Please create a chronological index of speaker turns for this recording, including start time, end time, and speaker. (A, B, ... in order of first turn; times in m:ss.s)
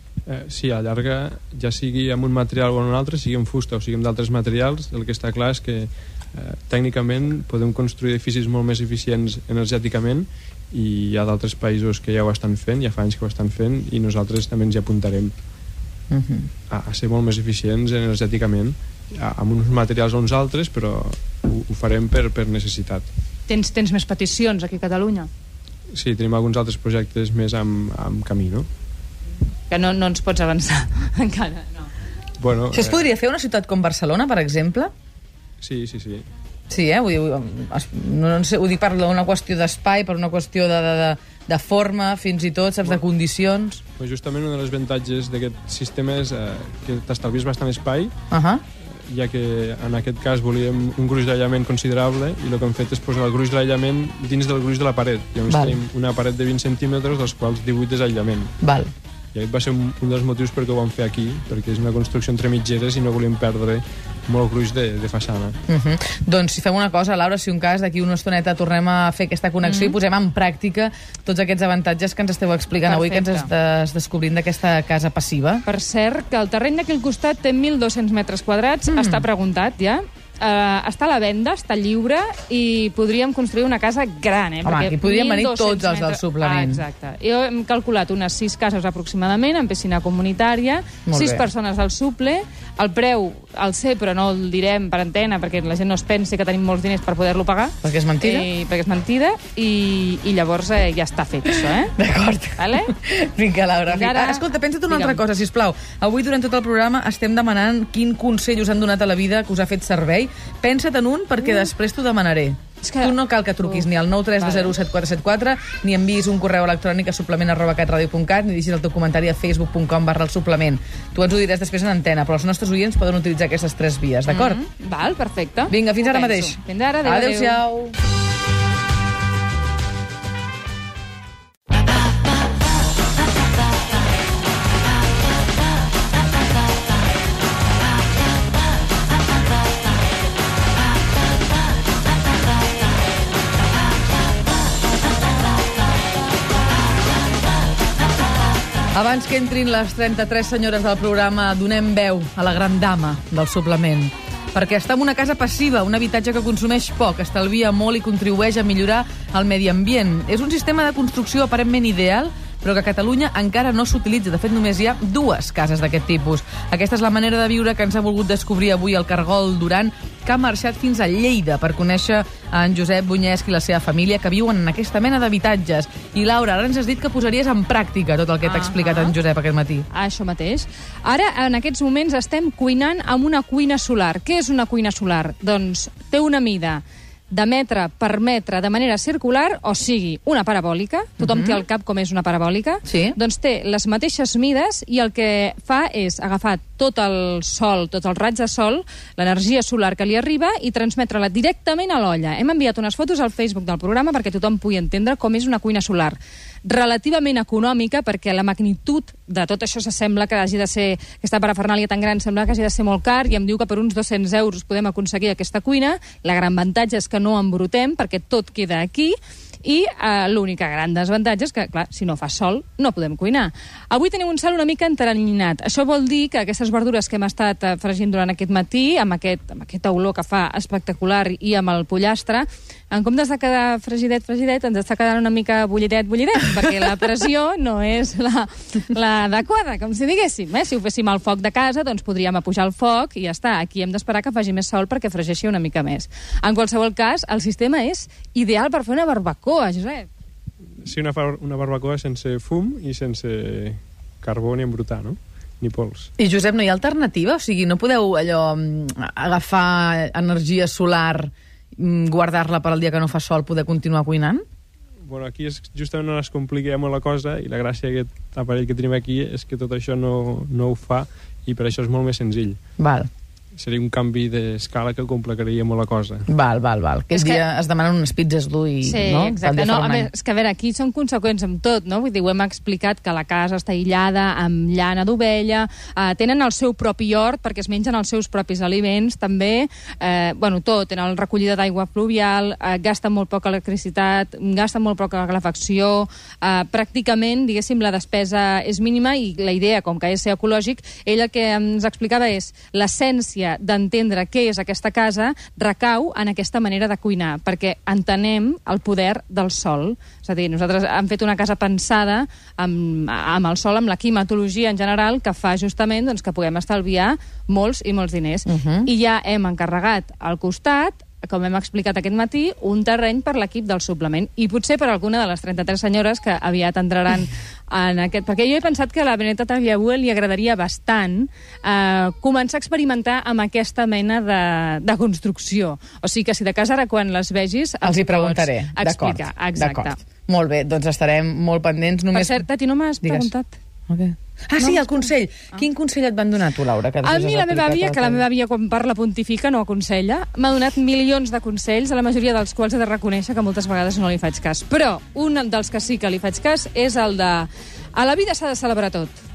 0:00.3-0:15.3 A
0:16.1-0:16.5 B
0:16.7-0:23.1 A
0:23.5-0:25.3 C
0:25.9-0:28.7 A
0:29.7-0:31.9 C
0:32.4-0:33.0 A
0:32.7-0:34.9 B
0:35.6-0:36.2 A
0:36.7-0:43.8 B
0:44.0-0:48.1 A
0:48.3-0:48.6 B
0:48.8-0:58.5 A
0:55.5-0:55.8 B
0:58.6-0:58.9 B
0:59.3-1:05.6 A
1:05.7-1:15.6 B
1:09.6-1:10.0 C
1:12.8-1:13.5 C
1:15.6-1:41.9 C
1:18.9-1:19.2 B
1:24.6-1:26.8 B
1:31.1-1:31.4 B
1:37.8-1:38.5 B
1:41.4-2:04.6 B
1:42.6-1:42.9 C
1:43.9-1:45.2 C
1:52.8-1:53.9 C
1:54.4-1:54.7 C
2:04.3-2:07.6 C
2:05.7-2:07.9 B
2:28.9-2:59.9 B
2:58.4-2:59.2 C
2:59.9-4:10.1 C
3:11.2-3:11.6 B
3:12.9-3:13.2 B
4:10.8-4:16.1 A
4:16.2-4:24.4 B
4:25.0-4:32.6 A
4:32.8-4:33.1 B
4:33.6-4:36.3 A
4:36.3-4:40.1 B
4:37.1-4:37.4 C
4:38.8-5:40.0 C
5:18.5-5:18.9 B
5:37.8-5:42.4 B
5:42.1-5:43.6 C
5:43.0-5:43.3 B
5:43.9-5:48.2 B
5:44.6-5:45.6 C
5:47.0-5:59.2 C